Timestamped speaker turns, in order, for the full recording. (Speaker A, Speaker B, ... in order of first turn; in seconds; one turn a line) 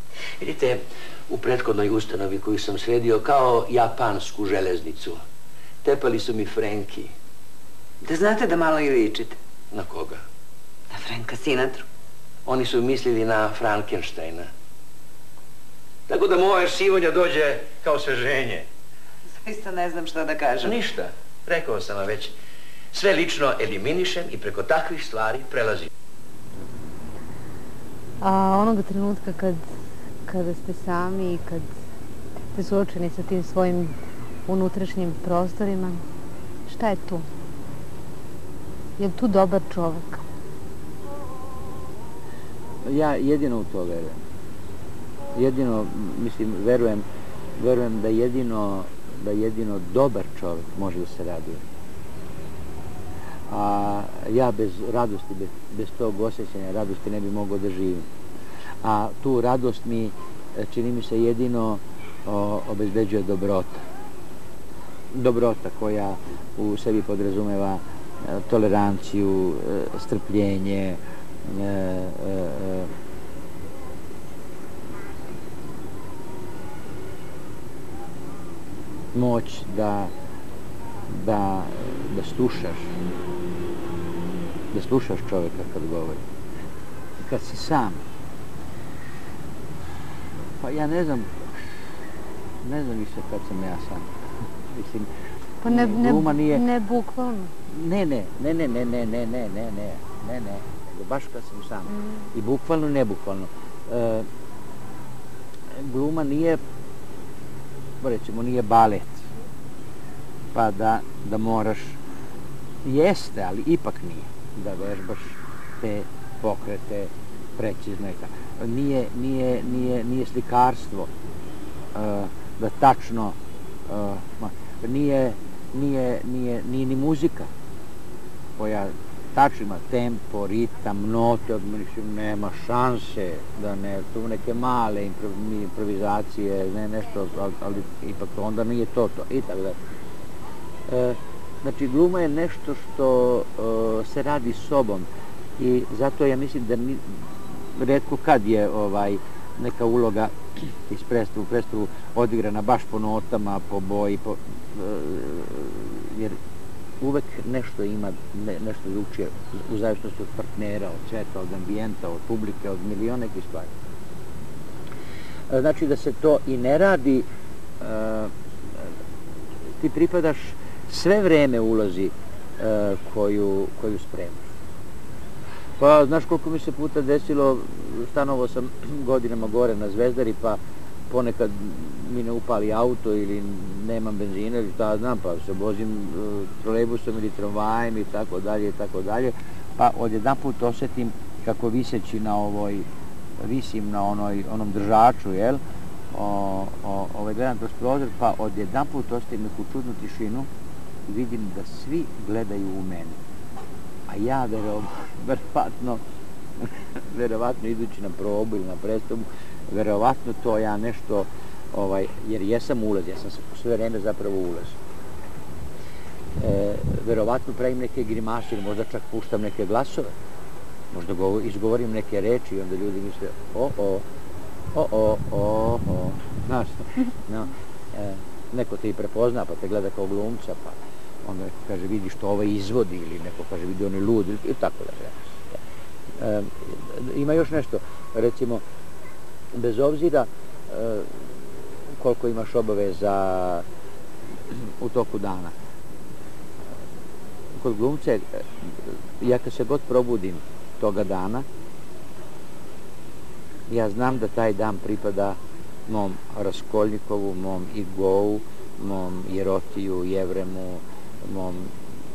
Speaker A: 0.4-5.2
Speaker A: 5.8-7.1
Speaker B: 8.0-9.3
Speaker A: 9.7-10.2
Speaker B: 11.1-11.8
Speaker A: 12.4-14.5
Speaker A: 16.1-18.6
Speaker B: 19.4-20.7
Speaker A: 20.6-22.3
Speaker A: 22.9-25.9
Speaker C: 28.2-29.6
Speaker C: 30.3-31.7
Speaker C: 32.5-36.0
Speaker C: 36.7-37.3
Speaker C: 39.0-40.2
Speaker D: 42.8-44.2
Speaker D: 45.3-47.0
Speaker D: 47.6-51.6
Speaker D: 53.5-58.0
Speaker D: 58.8-63.8
Speaker D: 65.1-72.9
Speaker D: 79.1-80.1
Speaker D: 81.1-82.9
Speaker D: 84.7-86.2
Speaker D: 87.2-88.0
Speaker D: 90.6-91.8
Speaker D: 92.6-94.1
Speaker D: 94.7-95.1
Speaker C: 95.6-97.5
Speaker D: 95.6-96.6
Speaker D: 97.7-104.3
Speaker D: 105.7-106.6
Speaker D: 108.0-109.2
Speaker D: 110.5-112.0
Speaker D: 112.8-121.1
Speaker D: 121.9-127.5
Speaker D: 128.6-139.8
Speaker D: 140.9-156.4
Speaker D: 157.0-163.7
Speaker D: 165.5-167.2
Speaker D: 167.8-168.9
Speaker D: 169.8-174.5
Speaker D: 175.8-192.8
Speaker D: 193.4-200.5
Speaker D: 201.1-203.2
Speaker D: 204.1-206.0
Speaker D: 206.6-214.8
Speaker D: 216.4-220.1
Speaker D: 220.9-224.0
Speaker D: 224.7-235.6
Speaker D: 236.2-238.6
Speaker D: 239.5-241.3
Speaker D: 241.9-243.7
Speaker D: 244.5-245.5
Speaker D: 247.5-251.4
Speaker D: 253.7-261.8